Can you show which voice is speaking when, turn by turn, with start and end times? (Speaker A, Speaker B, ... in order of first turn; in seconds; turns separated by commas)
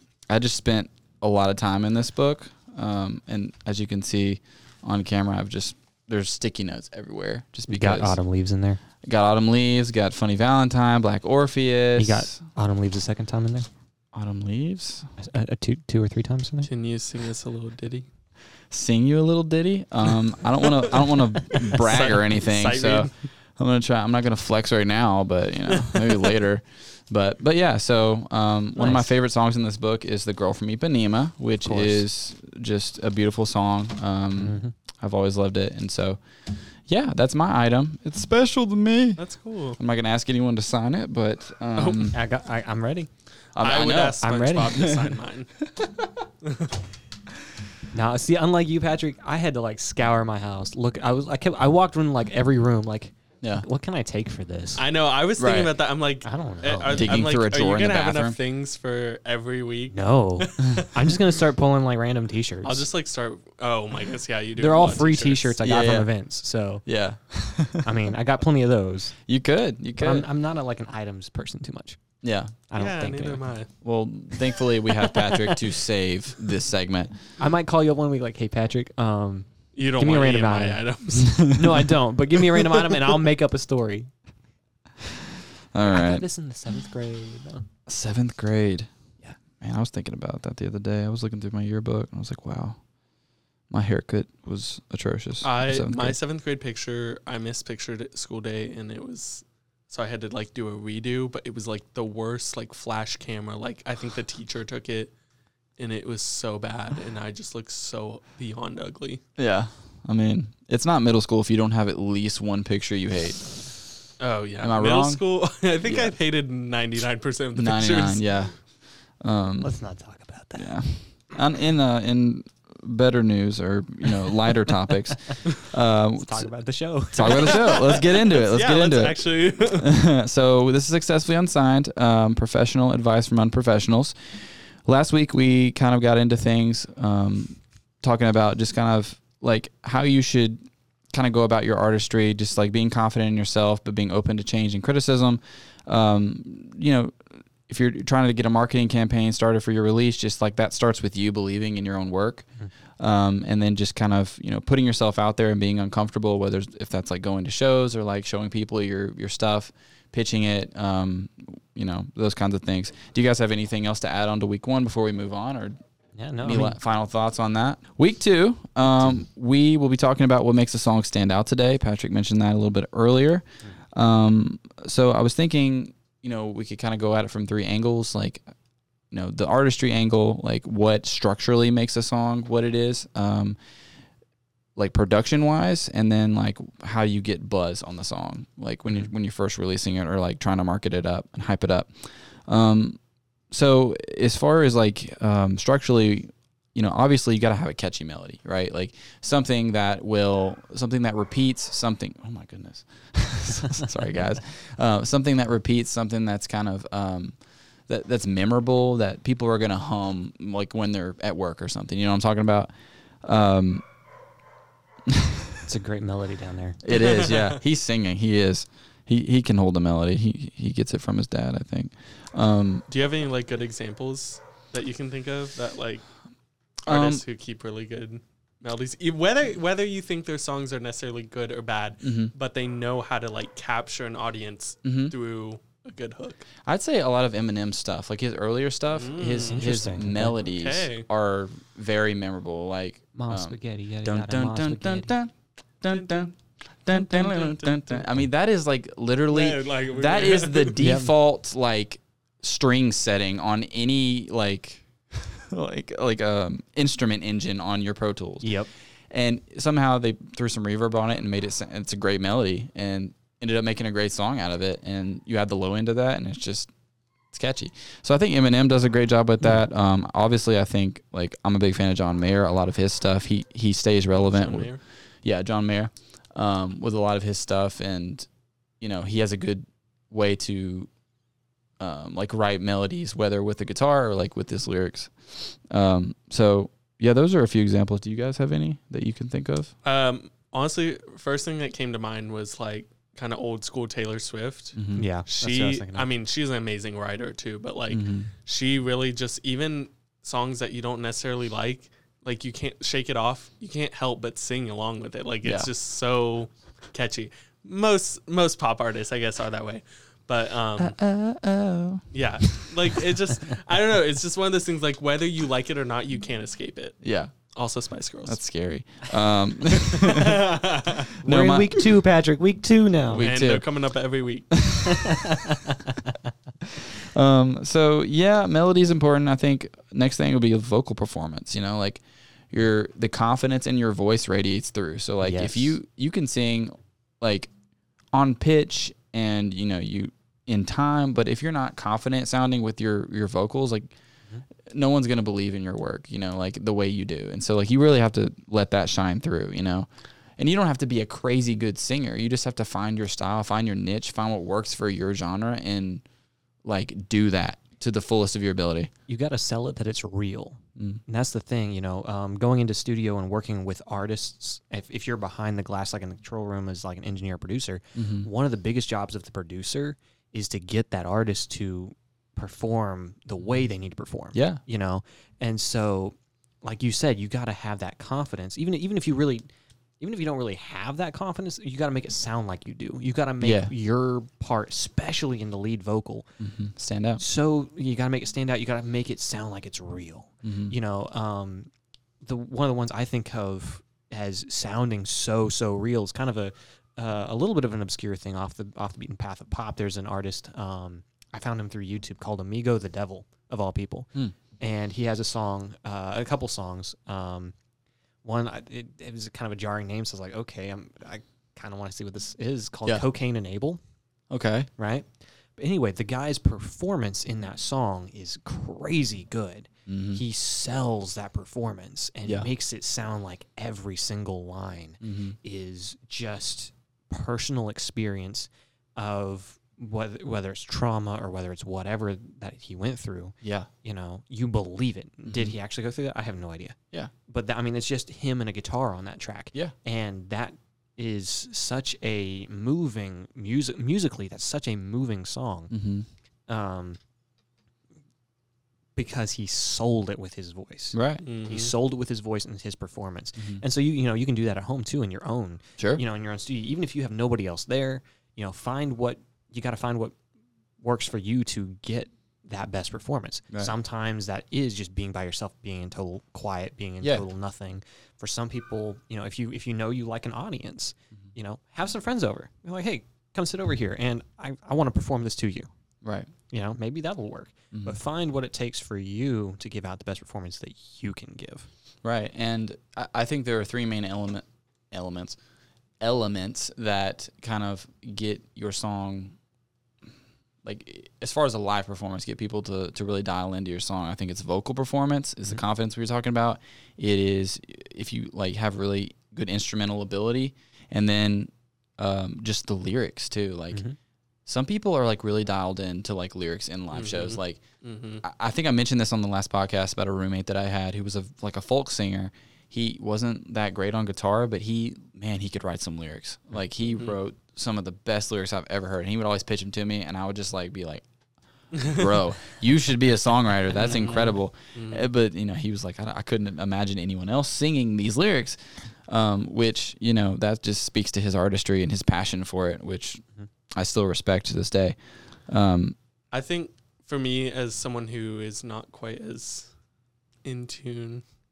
Speaker A: 0.3-8.2, Speaker B: 7.7-8.8, Speaker A: 9.0-12.4, Speaker B: 11.9-13.7, Speaker A: 14.1-15.1, Speaker B: 15.2-16.7, Speaker C: 16.6-18.1, Speaker A: 18.7-36.2, Speaker C: 21.4-23.1, Speaker C: 25.8-26.1, Speaker B: 28.8-29.1, Speaker B: 31.6-32.0, Speaker B: 34.4-34.7, Speaker A: 36.9-39.2, Speaker C: 39.2-39.8, Speaker A: 39.8-42.2, Speaker C: 41.8-42.1, Speaker B: 42.1-43.1, Speaker A: 43.5-45.1, Speaker C: 43.6-45.5, Speaker B: 44.2-44.9, Speaker A: 45.7-46.0, Speaker C: 46.4-46.7, Speaker B: 47.9-54.8, Speaker C: 54.8-61.1, Speaker A: 55.4-55.7, Speaker B: 56.2-57.1, Speaker A: 56.9-58.4, Speaker B: 59.9-62.9, Speaker C: 62.6-65.5, Speaker B: 64.6-66.8, Speaker A: 65.6-66.1, Speaker A: 66.8-67.9, Speaker B: 67.8-69.1, Speaker A: 69.3-70.3, Speaker B: 70.0-72.0, Speaker A: 72.2-72.5, Speaker B: 72.7-73.5, Speaker C: 72.8-73.7, Speaker A: 73.8-77.2, Speaker B: 74.8-75.6, Speaker B: 77.4-84.1, Speaker C: 79.7-81.5, Speaker A: 81.2-81.8, Speaker A: 85.7-86.2, Speaker B: 85.8-87.7, Speaker A: 87.9-88.9, Speaker A: 89.6-92.8, Speaker A: 93.7-96.2, Speaker C: 95.4-105.1, Speaker C: 105.8-109.2, Speaker A: 109.4-113.5, Speaker C: 114.2-118.2, Speaker A: 114.6-115.2, Speaker A: 115.8-116.1, Speaker A: 117.5-118.6, Speaker A: 119.2-119.7, Speaker B: 119.6-120.7, Speaker A: 120.5-126.5, Speaker B: 126.2-127.8, Speaker A: 127.1-134.1, Speaker C: 127.2-129.9, Speaker A: 134.8-140.6, Speaker A: 141.1-152.5, Speaker A: 153.0-165.8, Speaker B: 166.1-166.8, Speaker A: 166.4-178.4, Speaker A: 179.1-183.6, Speaker A: 184.8-193.0, Speaker A: 193.5-207.3, Speaker A: 207.9-212.7, Speaker A: 213.2-213.8, Speaker A: 215.1-215.6, Speaker B: 215.7-216.8, Speaker A: 216.8-222.8, Speaker C: 217.0-217.6, Speaker C: 222.9-226.0, Speaker A: 226.8-227.2, Speaker C: 226.8-236.5, Speaker A: 232.0-232.3, Speaker A: 234.8-235.1, Speaker A: 236.6-258.5, Speaker C: 238.9-239.8, Speaker B: 239.4-240.4, Speaker C: 240.4-241.1, Speaker B: 243.1-245.1, Speaker C: 245.9-246.3, Speaker C: 246.9-248.1, Speaker C: 249.3-250.8, Speaker B: 250.8-251.1, Speaker B: 258.4-258.7, Speaker A: 259.1-266.7, Speaker A: 267.3-274.7, Speaker C: 274.1-274.8, Speaker A: 275.2-278.3, Speaker A: 278.8-280.9, Speaker A: 281.8-289.7, Speaker C: 289.8-311.0, Speaker A: 294.8-295.0, Speaker B: 294.9-296.1, Speaker A: 297.9-298.3, Speaker A: 305.4-305.7, Speaker A: 310.8-313.0, Speaker C: 312.1-317.0, Speaker A: 317.0-317.3, Speaker C: 317.5-318.4, Speaker A: 318.2-320.6, Speaker C: 319.7-321.1, Speaker A: 321.2-321.8, Speaker B: 321.2-323.3, Speaker A: 323.1-323.6, Speaker C: 323.2-324.6, Speaker A: 324.5-325.4, Speaker B: 324.8-326.1, Speaker A: 326.7-337.5, Speaker B: 335.2-335.7, Speaker A: 338.1-343.9, Speaker A: 344.7-356.0, Speaker A: 356.6-358.9, Speaker B: 359.1-379.5, Speaker A: 367.9-368.3, Speaker A: 374.3-374.6, Speaker B: 380.0-386.3, Speaker A: 383.4-383.7, Speaker A: 386.4-387.2, Speaker B: 387.2-391.7, Speaker A: 390.4-390.7, Speaker B: 392.2-407.5, Speaker B: 408.2-413.8, Speaker A: 414.3-414.7, Speaker B: 414.8-445.7, Speaker A: 419.9-420.2, Speaker A: 425.0-425.3, Speaker A: 433.4-433.7, Speaker A: 435.2-435.5, Speaker A: 445.7-446.1, Speaker B: 446.5-447.0, Speaker B: 448.9-460.1, Speaker A: 450.9-451.2, Speaker C: 451.2-451.7, Speaker B: 460.8-475.7, Speaker A: 476.0-476.3, Speaker B: 476.5-481.7, Speaker A: 482.0-485.4, Speaker A: 486.0-489.4, Speaker A: 490.6-503.8, Speaker A: 504.4-507.6, Speaker C: 506.9-508.2, Speaker A: 508.2-521.0, Speaker A: 521.7-536.0, Speaker C: 521.8-522.1, Speaker C: 523.8-525.0, Speaker C: 536.3-539.7, Speaker C: 540.4-541.2